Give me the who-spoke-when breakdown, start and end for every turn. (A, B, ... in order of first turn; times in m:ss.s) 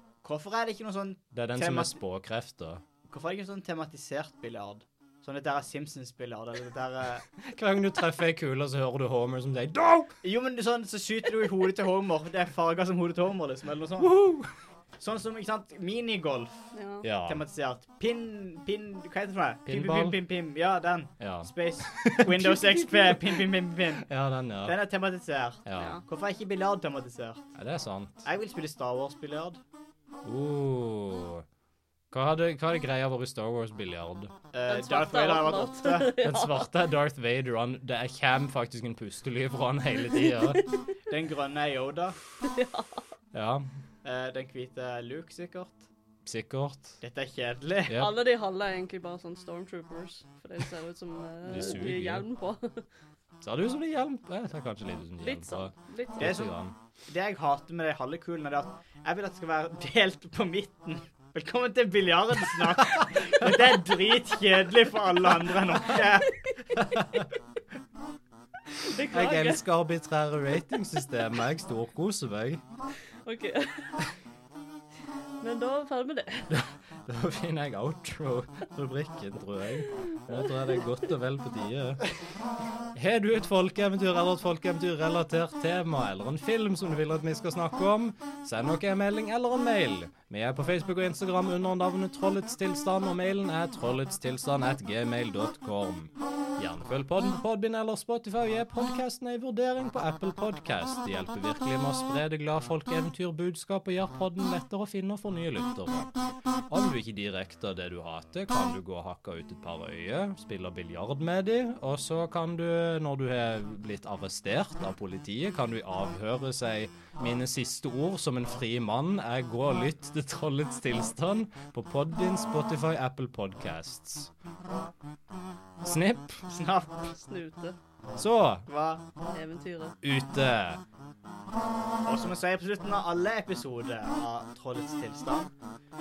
0:00.2-0:02.0 A
0:01.3-0:02.8 B
0:03.1-0:07.2 A
0:07.4-0:10.2 B
0:10.2-0:14.1 A
0:14.0-0:14.5 B
0:15.0-0:16.7 A
0:16.7-0:17.0 C
0:17.0-0:17.4 B
0:17.3-0:24.1 A
0:19.7-0:20.2 B
0:21.2-0:24.8 B
0:24.6-0:27.5 A
0:25.6-0:26.0 B
0:25.8-0:26.0 C
0:27.6-0:28.3 B
0:28.2-0:29.6 A
0:30.2-0:31.4 B
0:32.1-0:34.3 B
0:34.5-0:36.2 A
0:34.7-0:36.7 C
0:36.2-0:40.6 B
0:41.1-0:42.2 A
0:42.4-0:43.1 C
0:43.3-0:43.7 B
0:44.0-0:45.9 A
0:46.3-0:47.0 B
0:47.0-0:48.0 A
0:47.9-0:52.8 C
0:51.4-0:52.2 B
0:53.4-0:56.8 B
0:55.2-0:56.4 C
0:56.2-0:56.5 A
0:57.1-1:06.4 A
1:06.7-1:07.3 B
1:08.8-1:09.6 C
1:09.1-1:12.6 B
1:13.2-1:14.0 C
1:15.4-1:16.6 C
1:16.5-1:22.1 B
1:20.3-1:20.9 C
1:23.0-1:46.1 B
1:46.7-2:04.3 B
2:05.8-2:06.4 B
2:06.5-2:07.2 A
2:07.2-2:07.8 C
2:08.2-2:08.7 B
2:08.7-2:09.0 A
2:09.3-2:10.0 C
2:10.0-2:10.8 B
2:12.1-2:15.5 A